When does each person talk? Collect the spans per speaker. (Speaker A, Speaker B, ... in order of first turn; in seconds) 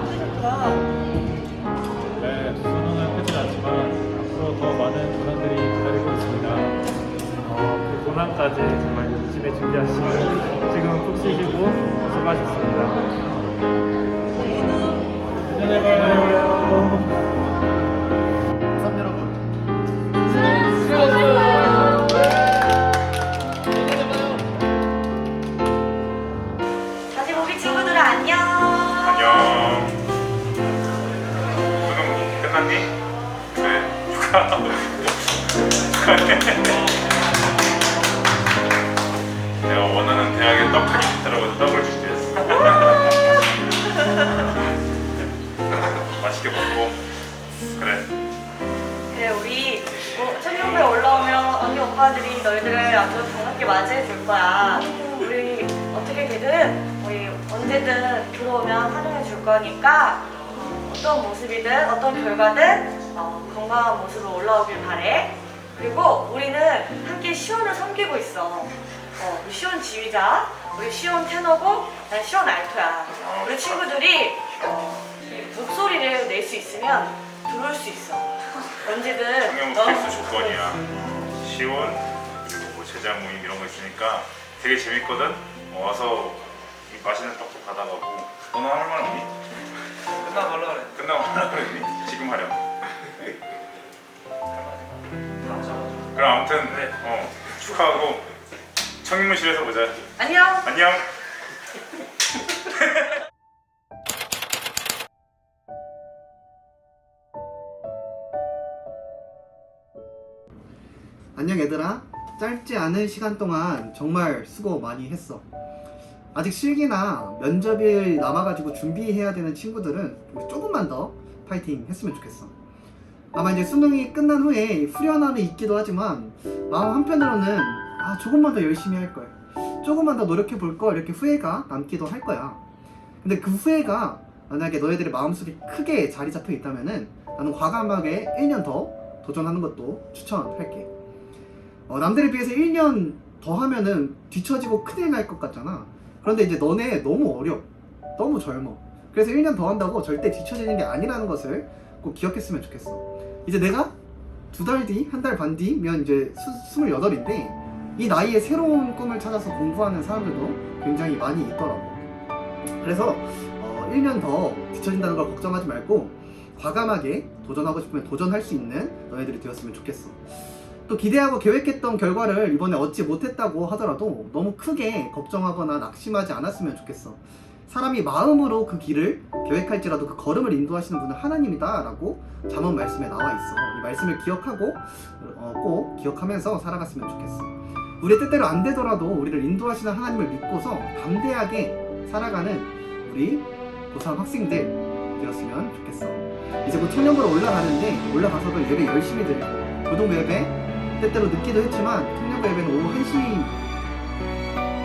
Speaker A: 2.2-6.8, 7.5-13.0, 15.5-17.0
Speaker B: 27.1-29.4, 49.1-80.8, 100.2-100.7
Speaker C: 29.0-30.0, 31.8-32.9, 33.6-35.1, 36.0-36.8, 39.6-43.0, 46.2-47.0, 47.8-48.1, 73.2-73.8, 79.5-80.8, 81.3-89.3, 90.3-92.6, 96.1-98.3, 99.0-100.0, 100.7-101.1
Speaker D: 111.3-115.5, 116.3-122.5, 123.3-132.7, 133.2-140.9, 141.9-153.9, 154.5-162.1, 162.8-203.6